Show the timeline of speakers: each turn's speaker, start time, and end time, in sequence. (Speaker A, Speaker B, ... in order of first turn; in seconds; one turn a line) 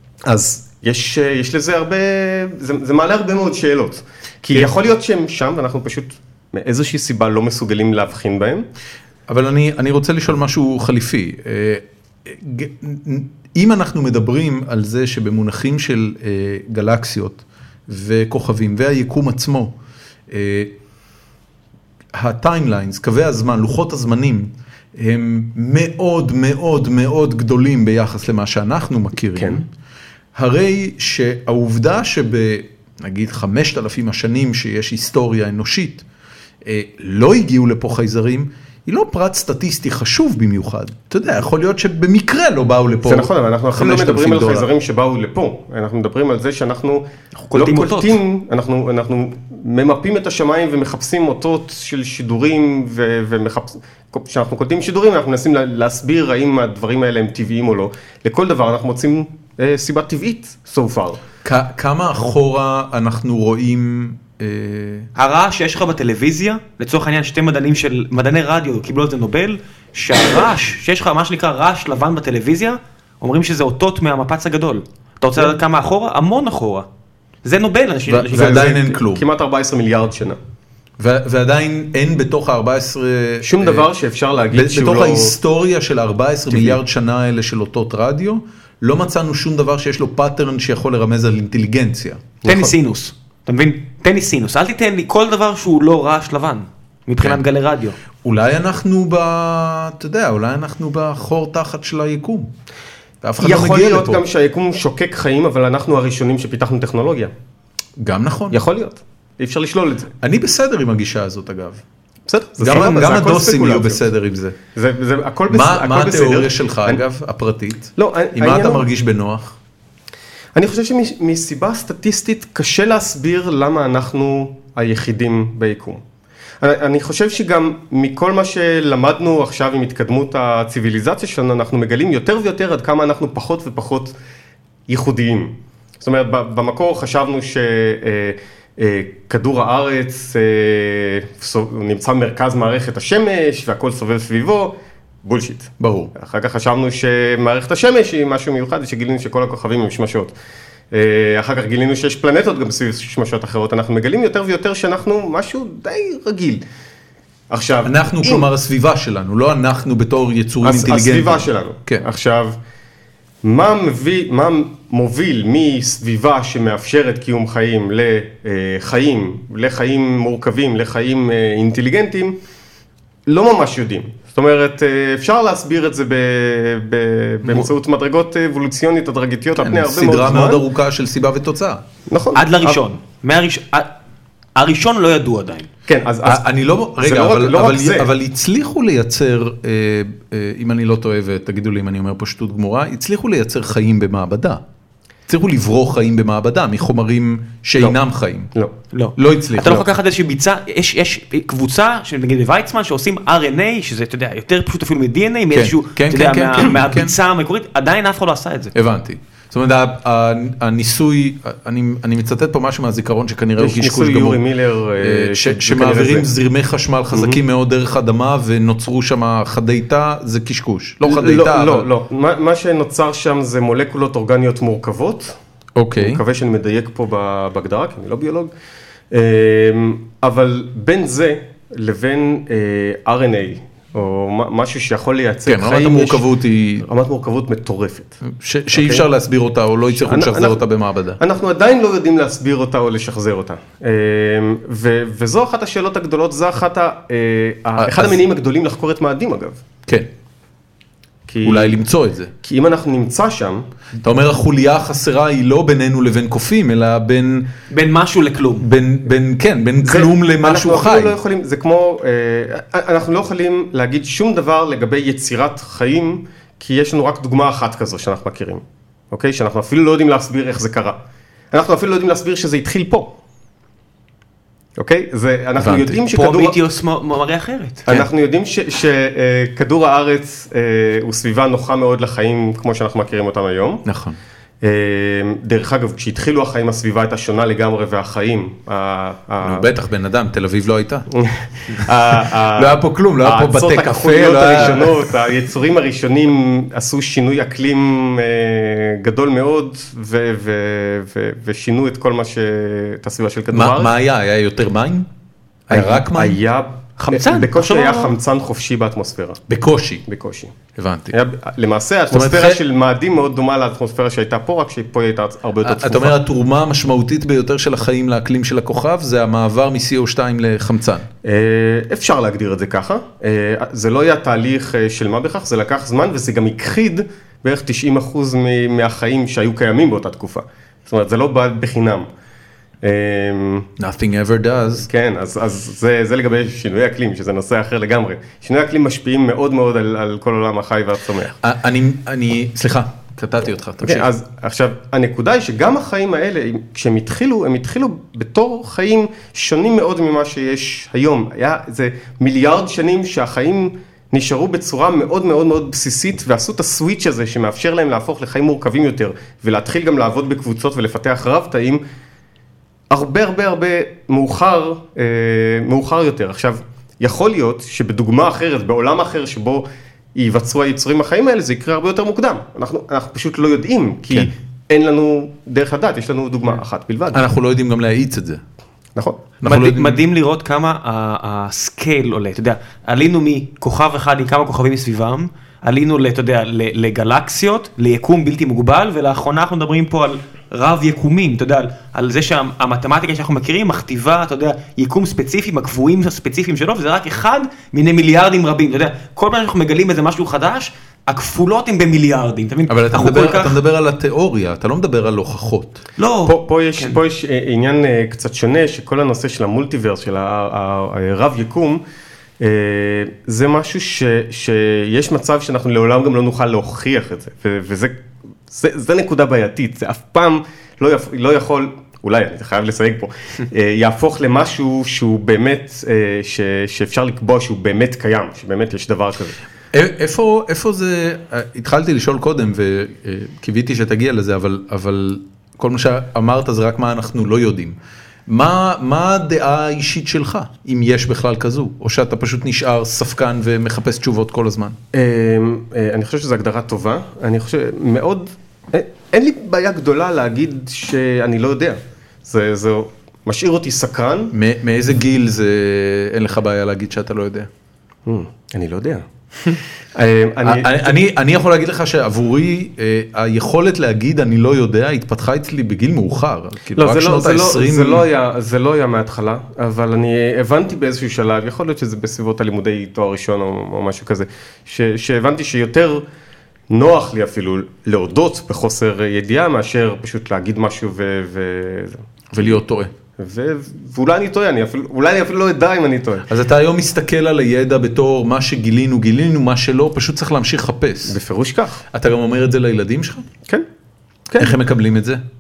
Speaker A: 0.3-8.7
Speaker B: 9.3-19.7
Speaker B: 20.3-20.7
Speaker B: 22.1-29.7
Speaker A: 29.4-29.6
Speaker B: 30.4-36.0
Speaker B: 36.6-44.7
Speaker A: 43.0-61.2
Speaker C: 47.4-48.2
Speaker B: 61.4-65.1
Speaker C: 65.2-76.9
Speaker C: 77.4-78.9
Speaker B: 78.1-79.2
Speaker A: 78.3-80.4
Speaker B: 81.0-83.9
Speaker A: 83.4-85.3
Speaker B: 84.5-92.3
Speaker A: 86.5-86.8
Speaker A: 92.4-92.7
Speaker C: 92.5-98.0
Speaker B: 98.2-102.5
Speaker B: 103.2-104.2
Speaker A: 103.4-107.3
Speaker B: 108.0-108.6
Speaker A: 108.5-110.1
Speaker B: 110.2-111.8
Speaker A: 112.3-114.0
Speaker B: 112.6-114.6
Speaker A: 114.8-117.0
Speaker B: 115.5-119.6
Speaker A: 118.0-118.9
Speaker A: 120.5-126.0
Speaker A: 126.6-134.2
Speaker A: 134.9-150.3
Speaker B: 145.8-146.1
Speaker A: 150.9-156.6
Speaker A: 157.5-158.5
Speaker B: 157.8-162.1
Speaker A: 160.6-162.6
Speaker A: 163.4-172.4
Speaker A: 173.3-180.6
Speaker B: 179.6-181.8
Speaker A: 182.1-182.8
Speaker C: 182.3-183.9
Speaker C: 184.6-185.7
Speaker A: 185.9-186.5
Speaker B: 186.3-194.6
Speaker A: 187.0-188.1
Speaker B: 195.3-198.5
Speaker C: 198.9-208.7
Speaker B: 199.2-199.9
Speaker B: 205.5-207.2
Speaker B: 208.7-214.4
Speaker A: 213.6-216.3
Speaker B: 215.0-221.9
Speaker A: 217.1-217.4
Speaker A: 221.0-225.4
Speaker B: 225.8-226.2
Speaker A: 226.0-228.5
Speaker A: 229.1-236.2
Speaker B: 235.5-236.9
Speaker A: 236.8-238.2
Speaker B: 238.3-241.2
Speaker A: 238.7-239.1
Speaker A: 239.9-240.7
Speaker A: 241.2-249.6
Speaker B: 247.8-248.2
Speaker A: 251.3-251.8
Speaker B: 251.4-252.3
Speaker A: 252.4-253.7
Speaker B: 254.0-257.5
Speaker C: 257.7-258.7
Speaker B: 258.6-261.2
Speaker A: 259.8-271.0
Speaker A: 271.5-273.2
Speaker A: 274.8-276.6
Speaker B: 275.6-276.0
Speaker C: 276.1-277.9
Speaker A: 277.9-283.8
Speaker B: 283.9-284.2
Speaker A: 284.6-289.7
Speaker B: 289.4-291.1
Speaker A: 291.1-303.9
Speaker B: 291.7-295.1
Speaker B: 303.5-305.1
Speaker B: 305.7-306.4
Speaker A: 305.7-309.4
Speaker C: 307.0-308.1
Speaker B: 309.5-310.0
Speaker A: 310.1-310.6
Speaker B: 310.8-311.2
Speaker A: 311.1-316.2
Speaker B: 312.1-312.6
Speaker B: 315.6-321.1
Speaker A: 321.2-332.1
Speaker A: 332.8-333.7
Speaker B: 333.8-334.9
Speaker A: 334.8-341.4
Speaker B: 341.4-344.1
Speaker A: 343.8-361.8
Speaker A: 362.9-377.3
Speaker B: 377.1-378.4
Speaker A: 379.0-379.2
Speaker B: 379.4-380.0
Speaker C: 379.4-403.6
Speaker B: 402.7-405.8
Speaker C: 406.0-407.0
Speaker A: 406.3-411.8
Speaker A: 412.4-418.0
Speaker A: 418.5-429.4
Speaker B: 429.7-444.8
Speaker A: 444.9-454.3
Speaker B: 454.3-457.5
Speaker A: 458.1-461.0
Speaker B: 460.4-468.1
Speaker A: 466.8-476.0
Speaker A: 476.7-482.0
Speaker B: 482.3-482.9
Speaker A: 483.2-486.3
Speaker B: 486.3-491.2
Speaker A: 491.1-491.8
Speaker B: 491.9-493.3
Speaker A: 494.3-494.6
Speaker B: 494.4-495.2